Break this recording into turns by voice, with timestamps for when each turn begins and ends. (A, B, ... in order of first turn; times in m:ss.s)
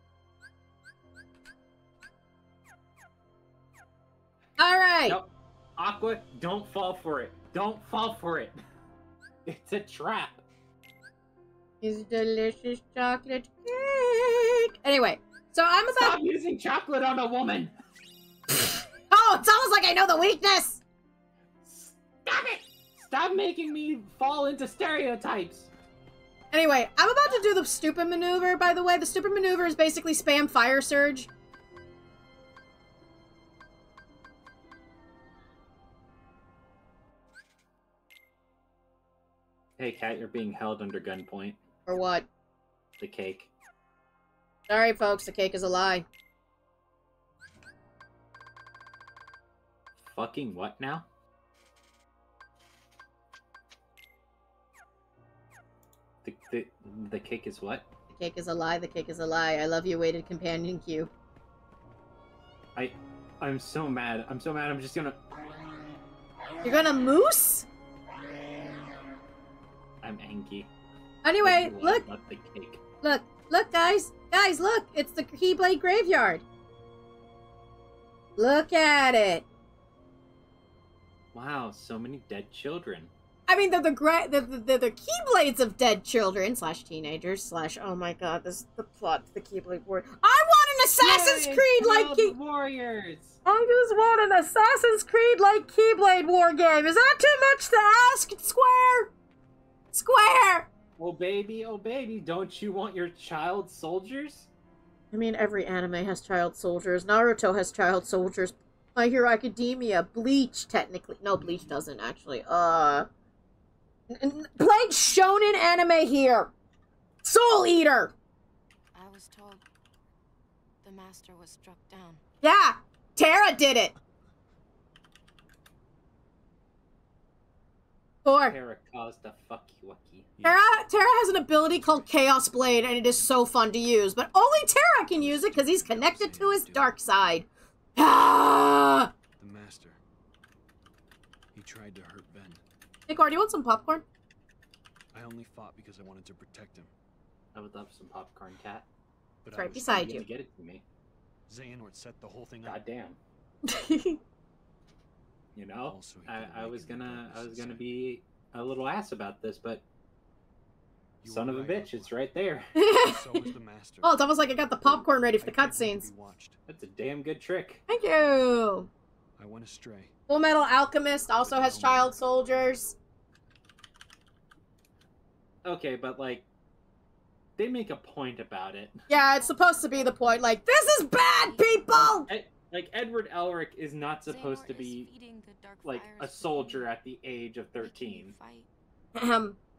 0:04.6-0:05.2 A
0:05.1-0:08.6 B
0:09.5-0:10.4 B
0:11.8-0:16.2 A
0:16.0-0:17.7 B
0:18.6-0:20.8 A
0:21.6-0:25.7 B
0:26.5-0:31.3 A
0:39.8-0:41.6 B
0:41.8-0:42.3 A
0:43.0-0:43.5 B
0:44.7-0:46.0 A
0:50.0-0:51.1 B
0:56.2-0:57.9 B
0:58.1-1:01.1 A
1:02.8-1:05.2 B
1:06.6-1:07.7 A
1:10.0-1:10.7 B
1:11.2-1:12.0 A
1:11.4-1:12.8 B
1:13.0-1:16.4 A
1:18.4-1:19.4 A
1:21.3-1:23.1 B
1:23.5-1:32.3 A
1:31.0-1:33.4 B
1:33.4-1:39.1 A
1:39.9-1:40.7 A
1:41.0-1:44.5 B
1:45.1-1:53.1 A
1:54.1-1:56.5 A
1:57.2-1:58.1 A
1:58.9-1:59.6 C
2:00.8-2:02.2 C
2:02.4-2:03.9 A
2:08.2-2:08.6 A
2:08.4-2:10.3 B
2:10.4-2:10.6 D
2:10.4-2:19.1 A
2:11.8-2:12.1 D
2:15.1-2:16.9 D
2:19.4-2:20.0 D
2:21.5-2:22.6 D
2:23.1-2:24.0 A
2:25.1-2:26.9 D
2:27.5-2:28.8 B
2:29.4-2:30.2 D
2:29.5-2:30.2 A
2:29.7-2:30.8 B
2:31.5-2:32.8 D
2:32.6-2:33.2 B
2:33.6-2:34.2 A
2:35.5-2:39.8 B
2:35.8-2:37.9 D
2:41.2-2:42.3 D
2:41.2-2:42.7 B
2:42.8-2:46.1 A
2:42.9-2:46.6 D
2:46.7-2:47.8 B
2:47.9-2:48.9 A
2:49.4-2:50.1 D
2:50.3-2:53.0 A
2:51.4-2:52.2 D
2:55.6-2:56.4 B
2:57.6-2:59.0 B
2:59.1-3:02.3 A
3:01.9-3:05.1 B
3:05.8-3:08.4 B
3:09.1-3:09.6 A